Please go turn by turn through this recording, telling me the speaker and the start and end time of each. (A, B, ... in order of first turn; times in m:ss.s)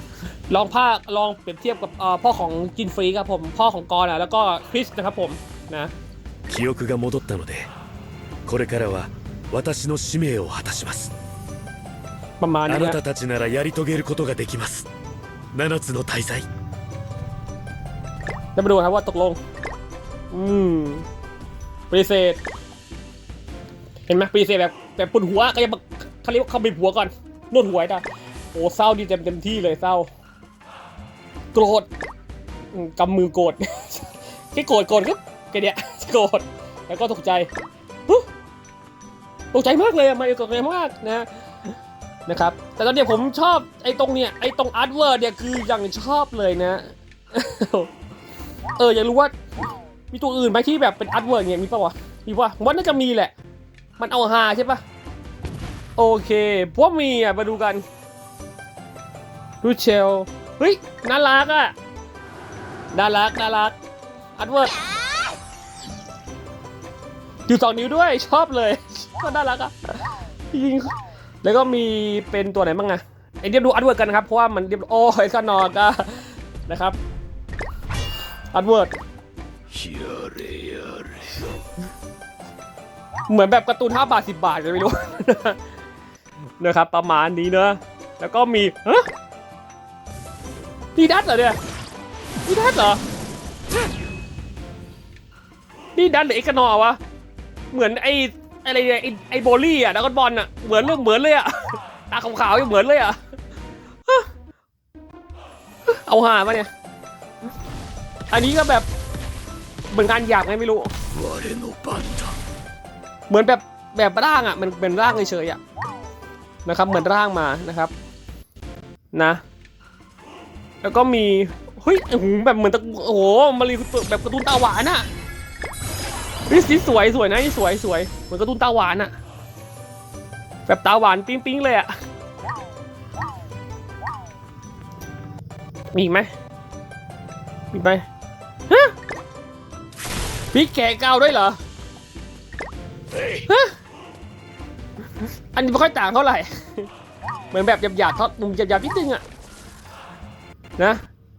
0:00.5-0:05.9 A
0:06.5-0:07.7 B
0:08.5-0:11.1 B
0:12.4-0:13.0 A
0:12.7-0:14.9 B
0:15.5-0:16.5 B
0:18.6-0:19.4 A
0:20.3-0:21.1 A
0:21.9-0:22.4 A
0:24.1-0:28.0 A
0:28.5-0:30.1 A
0:31.5-0:31.9 A
0:32.7-0:37.5 A
0:39.5-0:41.3 A
0:42.3-0:47.9 A
0:48.8-0:49.3 A
0:50.1-0:53.3 A
0:54.0-0:54.8 A
0:56.0-0:57.8 A
0:59.6-1:01.8 A
1:02.9-1:03.8 A
1:04.4-1:04.8 A
1:07.5-1:10.0 A
1:10.5-1:17.0 A
1:18.5-1:18.9 A
1:19.7-1:21.5 B
1:23.3-1:25.6 A
1:26.6-1:29.1 A
1:31.0-1:31.6 A
1:32.5-1:33.0 A
1:36.0-1:37.0 A
1:37.7-1:43.2 A
1:45.9-1:46.7 A
1:48.3-1:48.9 A
1:49.9-1:50.9 A
1:51.1-1:52.4 B
1:53.3-1:55.6 A
1:56.7-1:57.9 A
1:59.1-1:59.4 A
2:00.8-2:05.1 A
2:06.5-2:09.1 A
2:10.7-2:11.9 A
2:15.9-2:16.3 A
2:17.7-2:18.0 A
2:18.7-2:18.9 A
2:20.5-2:21.6 A
2:23.2-2:23.7 A
2:25.5-2:26.9 A
2:27.5-2:29.2 A